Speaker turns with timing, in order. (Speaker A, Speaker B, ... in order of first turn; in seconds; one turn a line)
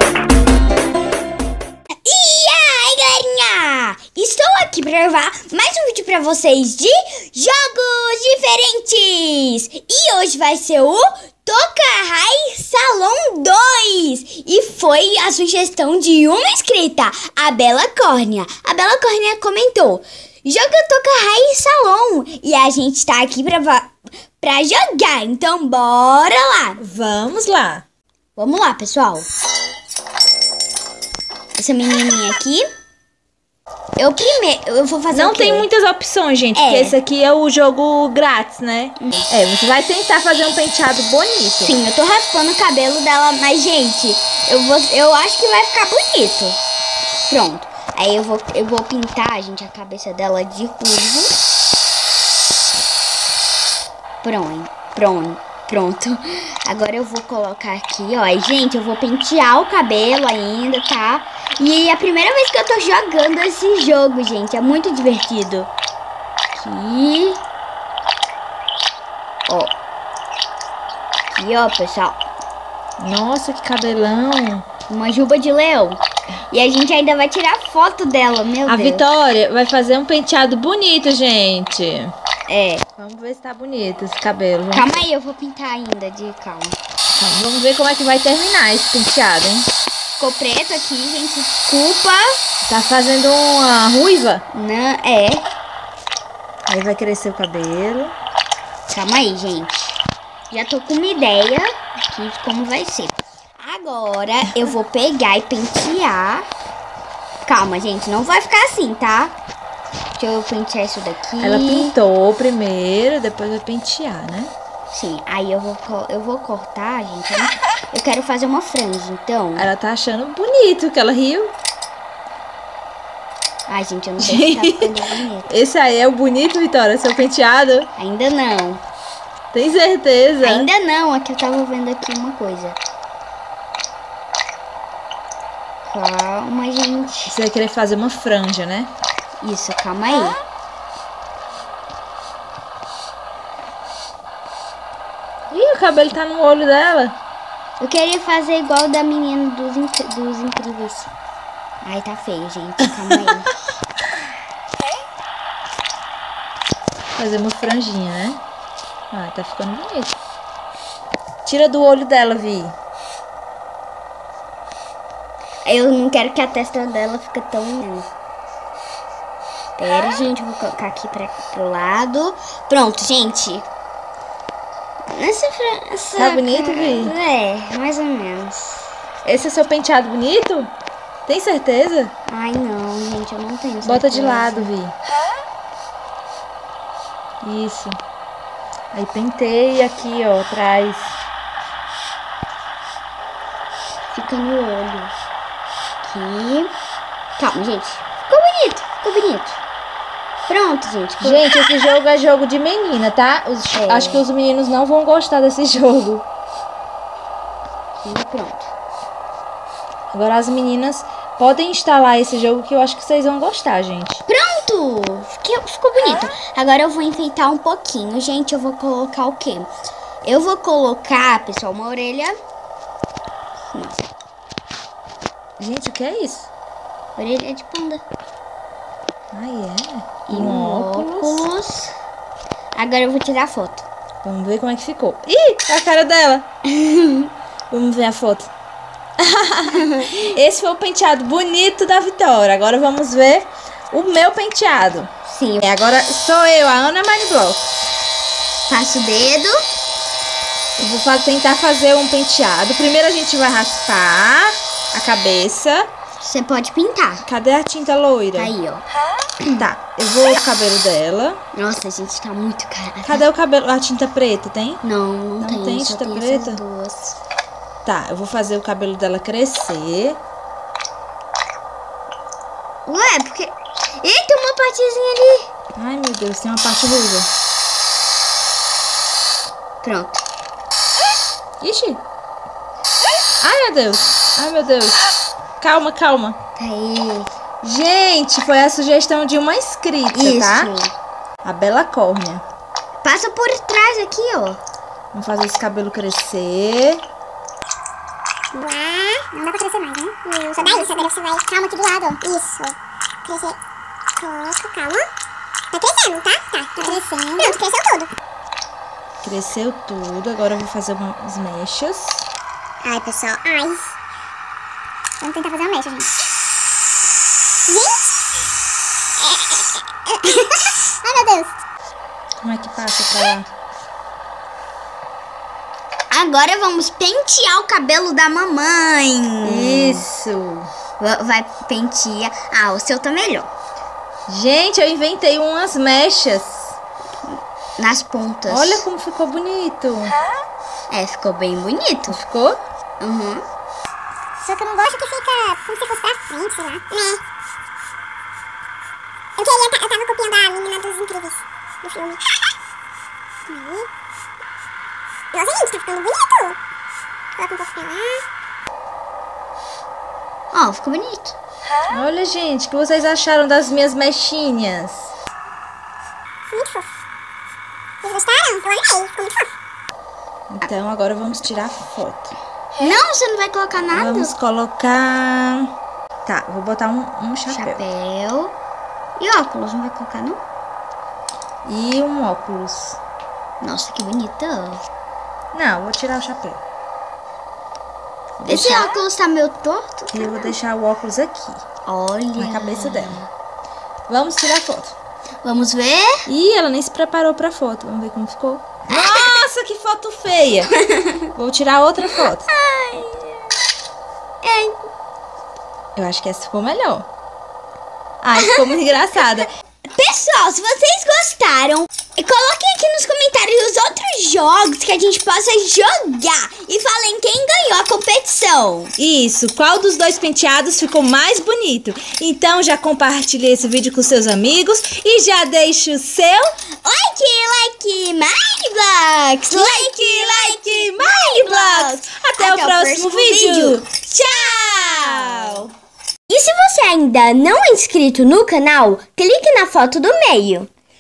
Speaker A: 2.0-26.8
Speaker B: 26.8-27.8
Speaker A: 28.4-29.3
Speaker A: 31.6-32.7
Speaker A: 34.0-35.7
Speaker B: 35.1-41.7
Speaker A: 36.5-37.0
Speaker A: 39.0-39.3
Speaker A: 41.6-46.6
Speaker A: 47.2-51.3
Speaker A: 54.2-65.7
Speaker A: 66.5-67.4
Speaker A: 69.5-69.7
Speaker A: 71.3-72.2
Speaker B: 73.0-74.6
Speaker A: 74.9-79.0
Speaker B: 78.7-82.1
Speaker A: 82.5-82.8
Speaker B: 83.0-85.0
Speaker A: 84.7-86.8
Speaker B: 87.1-89.7
Speaker A: 90.2-92.3
Speaker B: 92.7-94.4
Speaker A: 94.5-95.5
Speaker B: 96.7-98.1
Speaker A: 98.9-100.0
Speaker A: 100.5-106.4
Speaker A: 107.4-109.3
Speaker A: 110.2-111.9
Speaker B: 111.4-114.5
Speaker A: 114.9-119.7
Speaker B: 119.5-121.5
Speaker A: 123.7-125.5
Speaker B: 124.2-124.9
Speaker B: 125.5-127.9
Speaker A: 128.0-128.8
Speaker B: 129.5-130.7
Speaker A: 130.4-132.8
Speaker A: 135.8-137.3
Speaker B: 137.3-138.9
Speaker A: 139.4-140.4
Speaker B: 145.5-147.1
Speaker A: 147.8-151.1
Speaker A: 151.8-153.7
Speaker B: 157.2-158.4
Speaker B: 159.1-160.2
Speaker B: 161.4-162.8
Speaker A: 165.6-168.1
Speaker A: 169.8-173.7
Speaker A: 175.1-178.9
Speaker B: 176.1-177.1
Speaker B: 179.2-180.7
Speaker B: 181.2-182.1
Speaker A: 182.3-184.7
Speaker B: 183.8-184.9
Speaker B: 187.4-188.0
Speaker B: 188.9-191.2
Speaker A: 194.1-195.2
Speaker A: 196.0-196.7
Speaker A: 197.4-199.6
Speaker A: 200.5-201.4
Speaker B: 201.2-206.2
Speaker A: 203.7-204.2
Speaker A: 208.0-208.7
Speaker B: 210.1-214.2
Speaker A: 214.3-219.7
Speaker A: 220.2-222.3
Speaker A: 223.7-224.0
Speaker B: 225.6-226.5
Speaker A: 227.2-228.0
Speaker B: 229.3-231.4
Speaker A: 230.3-231.9
Speaker A: 232.8-233.8
Speaker B: 234.2-236.4
Speaker A: 236.7-237.3
Speaker B: 237.7-238.5
Speaker B: 239.2-245.1
Speaker A: 239.7-240.2
Speaker A: 245.2-245.7
Speaker B: 245.6-247.7
Speaker A: 248.7-249.6
Speaker B: 250.8-255.9
Speaker A: 256.2-257.2
Speaker B: 257.2-258.5
Speaker A: 258.4-258.8
Speaker B: 259.6-261.4
Speaker A: 261.5-263.2
Speaker B: 263.0-264.8
Speaker A: 264.8-267.2
Speaker B: 265.4-266.6
Speaker B: 267.9-270.2
Speaker A: 272.9-275.5
Speaker B: 275.8-277.3
Speaker A: 279.8-280.2
Speaker B: 281.6-282.0
Speaker B: 283.4-285.0
Speaker B: 285.6-286.4
Speaker A: 286.6-287.3
Speaker B: 287.6-290.7
Speaker A: 290.1-290.9
Speaker B: 291.4-292.4
Speaker A: 293.0-294.6
Speaker B: 295.1-297.0
Speaker C: 298.5-303.6
Speaker C: 304.2-305.1
Speaker C: 305.7-308.1
Speaker B: 309.2-312.3
Speaker C: 312.8-313.9
Speaker C: 315.2-316.1
Speaker C: 317.7-318.0
Speaker C: 319.2-321.5
Speaker B: 322.4-323.5
Speaker A: 326.1-330.0
Speaker B: 329.4-330.7
Speaker A: 331.0-333.5
Speaker B: 334.3-336.8
Speaker A: 337.8-338.9
Speaker B: 338.5-340.2
Speaker A: 340.9-342.2
Speaker B: 342.1-342.6
Speaker A: 343.0-343.4
Speaker C: 344.4-347.2
Speaker C: 349.4-352.5
Speaker C: 353.5-353.9
Speaker C: 355.3-356.6
Speaker C: 357.4-358.2
Speaker A: 360.5-361.4
Speaker B: 361.9-365.1
Speaker C: 366.5-366.9
Speaker C: 368.0-369.5
Speaker B: 370.5-372.3
Speaker A: 372.8-374.3
Speaker B: 373.8-375.7
Speaker B: 376.2-377.8
Speaker A: 377.5-378.5
Speaker A: 379.2-380.4
Speaker B: 381.6-383.0
Speaker A: 383.6-384.8
Speaker B: 385.5-386.6
Speaker B: 388.4-389.0
Speaker A: 388.5-390.6
Speaker B: 390.1-391.6
Speaker A: 391.9-393.3
Speaker B: 392.4-393.2
Speaker B: 394.1-394.9
Speaker A: 395.4-396.2
Speaker B: 396.3-400.7
Speaker A: 398.9-399.4
Speaker A: 400.8-401.2
Speaker B: 401.4-402.5
Speaker A: 402.2-403.5
Speaker A: 404.4-404.8
Speaker B: 406.0-407.1
Speaker B: 408.2-409.5
Speaker A: 408.4-408.6
Speaker A: 409.9-418.9
Speaker B: 419.0-426.5
Speaker A: 426.8-435.7
Speaker B: 429.5-433.9
Speaker B: 434.9-435.6
Speaker A: 436.3-440.7